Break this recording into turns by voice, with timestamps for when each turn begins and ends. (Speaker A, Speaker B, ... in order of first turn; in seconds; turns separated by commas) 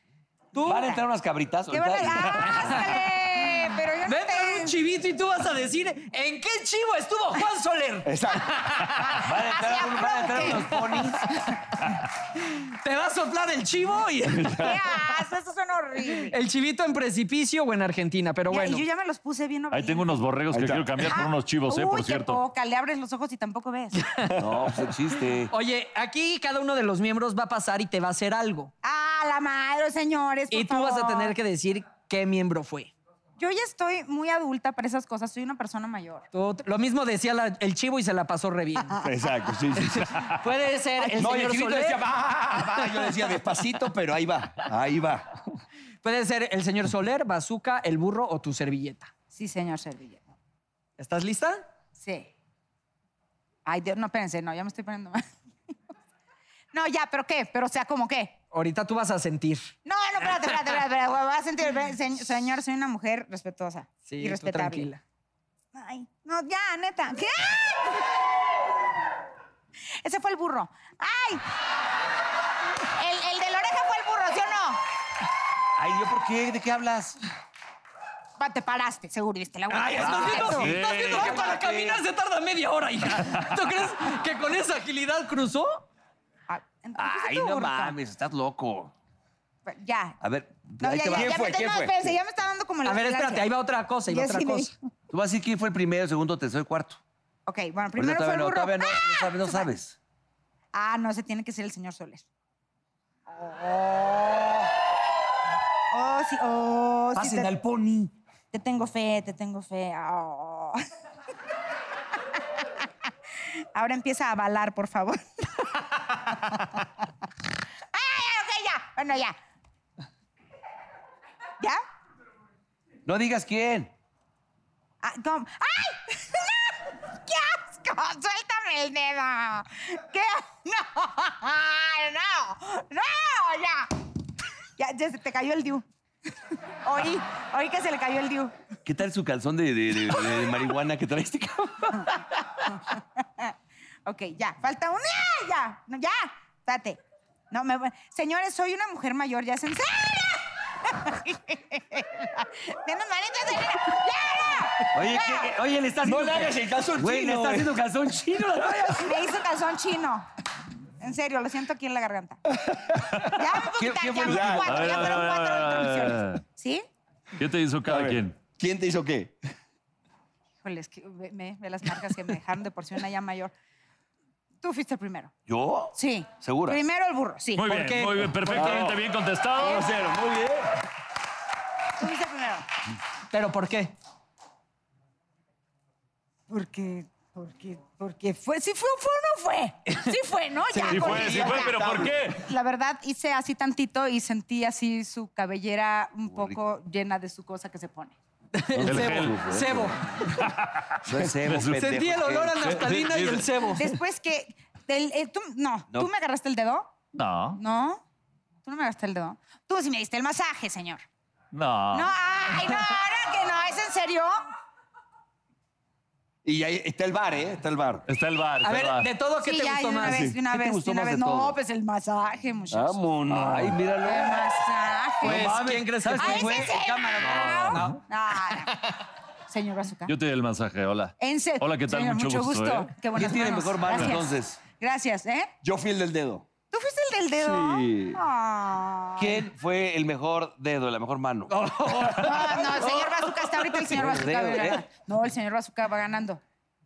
Speaker A: 0.6-1.0, Speaker B: 0.6-2.9, Speaker A: 1.7-4.8, Speaker C: 4.1-9.2, Speaker D: 8.1-8.6, Speaker B: 9.2-11.4, Speaker A: 9.5-10.8, Speaker C: 10.5-11.6, Speaker C: 12.5-14.7, Speaker D: 14.4-14.7, Speaker A: 14.5-16.4, Speaker C: 16.3-18.8, Speaker A: 18.5-20.1, Speaker E: 19.7-22.4, Speaker D: 20.5-21.0, Speaker A: 21.1-24.3, Speaker C: 24.0-24.4, Speaker B: 24.4-25.5, Speaker C: 25.5-28.7, Speaker A: 28.8-31.4, Speaker C: 30.5-32.9, Speaker A: 33.4-36.3, Speaker C: 36.3-39.0, Speaker D: 39.0-40.2, Speaker C: 39.8-42.0, Speaker D: 41.2-45.3, Speaker C: 46.0-49.1, Speaker A: 49.3-50.2, Speaker C: 51.0-51.6, Speaker A: 52.0-52.3, Speaker A: 53.6-55.2, Speaker A: 56.7-58.4, Speaker C: 58.5-59.7, Speaker A: 59.9-64.9, Speaker C: 64.1-65.0, Speaker A: 65.7-68.0, Speaker A: 70.0-71.5, Speaker A: 73.0-74.8, Speaker B: 75.8-77.2, Speaker A: 78.4-80.7, Speaker C: 79.7-85.8, Speaker B: 80.0-82.0, Speaker E: 80.5-81.4, Speaker A: 86.5-88.0, Speaker B: 87.0-88.9, Speaker A: 89.7-90.2, Speaker B: 90.2-91.6, Speaker A: 90.8-93.5, Speaker D: 91.1-92.1, Speaker C: 92.8-94.7, Speaker A: 94.1-94.8, Speaker B: 95.1-97.0, Speaker A: 97.5-99.7, Speaker B: 98.0-100.0, Speaker A: 100.7-102.2, Speaker A: 103.3-104.7, Speaker A: 105.9-107.5, Speaker B: 107.2-108.1, Speaker A: 108.5-110.8, Speaker A: 113.8-116.8, Speaker A: 117.9-119.3, Speaker B: 123.1-123.9, Speaker A: 125.0-134.0, Speaker A: 134.8-135.8, Speaker A: 136.8-138.5, Speaker B: 138.8-142.2, Speaker A: 142.7-143.5, Speaker A: 144.1-155.5, Speaker B: 154.9-159.2, Speaker D: 156.0-157.8, Speaker A: 159.0-160.3, Speaker A: 161.0-162.4, Speaker A: 163.2-166.8, Speaker B: 163.7-165.2, Speaker D: 164.2-164.9, Speaker E: 164.6-166.4, Speaker E: 167.4-168.4, Speaker D: 167.9-169.4, Speaker A: 170.6-173.5, Speaker A: 174.6-175.3, Speaker B: 175.5-176.8, Speaker A: 176.0-177.6, Speaker E: 177.6-179.9, Speaker C: 177.6-178.4, Speaker D: 178.4-179.1, Speaker D: 179.6-180.6, Speaker A: 179.6-179.9, Speaker A: 182.0-182.7, Speaker C: 183.3-183.9, Speaker A: 186.5-198.2, Speaker C: 190.7-191.6, Speaker E: 190.9-192.4, Speaker D: 191.1-192.3, Speaker B: 196.3-196.6, Speaker C: 198.6-200.3, Speaker B: 198.8-199.9, Speaker E: 198.8-199.5, Speaker E: 200.3-201.9, Speaker B: 201.0-202.8, Speaker C: 201.7-204.0, Speaker E: 202.6-203.6, Speaker A: 203.7-206.9, Speaker E: 207.1-207.6, Speaker A: 207.6-208.0, Speaker A: 208.6-211.0, Speaker E: 211.5-212.1, Speaker A: 211.9-214.3, Speaker D: 216.4-218.0, Speaker E: 218.1-219.1, Speaker C: 218.6-220.2, Speaker A: 219.4-223.0, Speaker D: 220.0-220.4, Speaker B: 220.4-221.6, Speaker D: 222.7-223.8, Speaker B: 223.2-224.5, Speaker A: 224.0-225.4, Speaker C: 225.2-226.7, Speaker B: 225.2-227.9, Speaker D: 225.5-225.8, Speaker A: 226.2-228.8, Speaker C: 227.6-228.0, Speaker A: 229.5-230.1, Speaker E: 230.1-232.9, Speaker A: 231.2-235.5, Speaker B: 233.1-234.6, Speaker D: 235.6-236.5, Speaker A: 236.7-239.4, Speaker D: 237.4-238.2, Speaker B: 239.2-242.3, Speaker C: 241.5-242.8, Speaker A: 242.1-246.4, Speaker B: 243.9-244.8